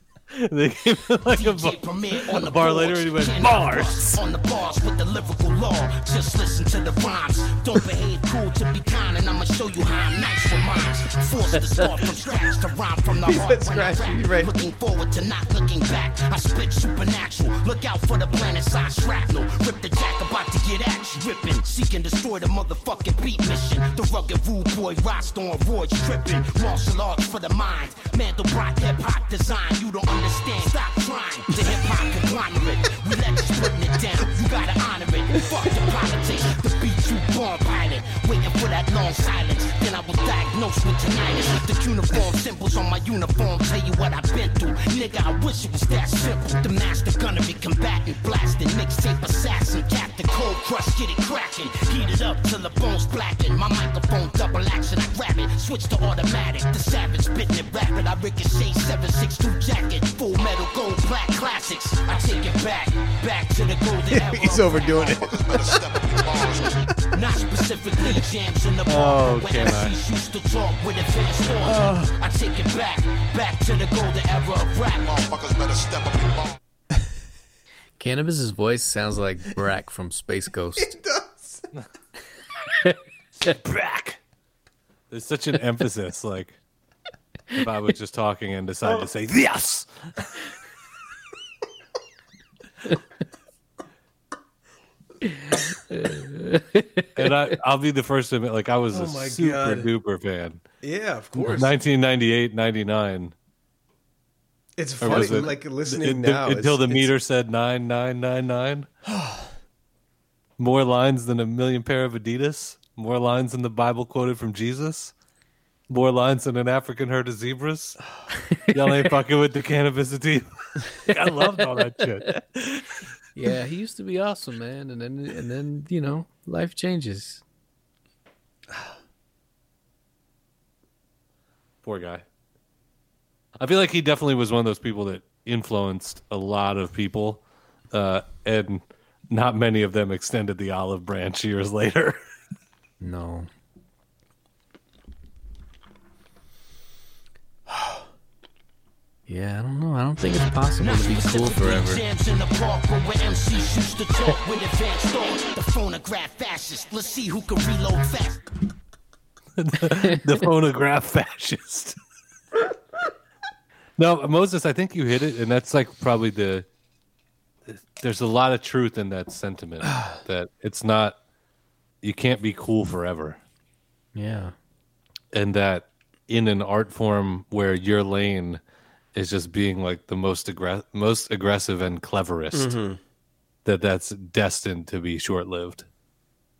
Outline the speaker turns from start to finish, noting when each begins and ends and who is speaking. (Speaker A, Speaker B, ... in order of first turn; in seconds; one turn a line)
Speaker A: 0.3-4.2
Speaker B: 1.3-65.1
Speaker C: 13.1-14.5
Speaker C: 64.1-66.6
Speaker D: 65.2-66.7
Speaker B: 67.0-75.2
Speaker C: 68.9-70.0
Speaker C: 71.6-72.1
Speaker D: 75.1-76.5
Speaker E: 78.0-80.9
Speaker C: 80.8-81.7
Speaker A: 83.5-84.2
Speaker A: 85.1-86.6
Speaker A: 87.5-90.3
Speaker E: 95.9-97.1
Speaker A: 97.2-100.6
Speaker C: 98.9-99.9
Speaker C: 100.8-101.7
Speaker A: 101.4-103.3
Speaker E: 101.4-101.7
Speaker C: 104.8-107.1
Speaker A: 105.0-108.9
Speaker C: 109.1-109.5
Speaker A: 110.6-115.1
Speaker A: 115.9-118.0
Speaker E: 118.5-119.1
Speaker A: 118.7-123.1
Speaker E: 123.4-127.4
Speaker A: 131.8-132.2
Speaker A: 133.6-142.2
Speaker E: 143.0-143.5
Speaker C: 147.7-148.1
Speaker E: 149.3-152.0
Speaker B: 150.8-158.4
Speaker A: 159.6-162.0
Speaker A: 164.0-166.7
Speaker A: 167.7-171.2
Speaker C: 169.9-170.2
Speaker A: 172.0-173.4
Speaker E: 174.2-174.6
Speaker A: 175.3-178.6
Speaker A: 179.2-182.8
Speaker C: 182.5-183.0
Speaker A: 183.7-185.9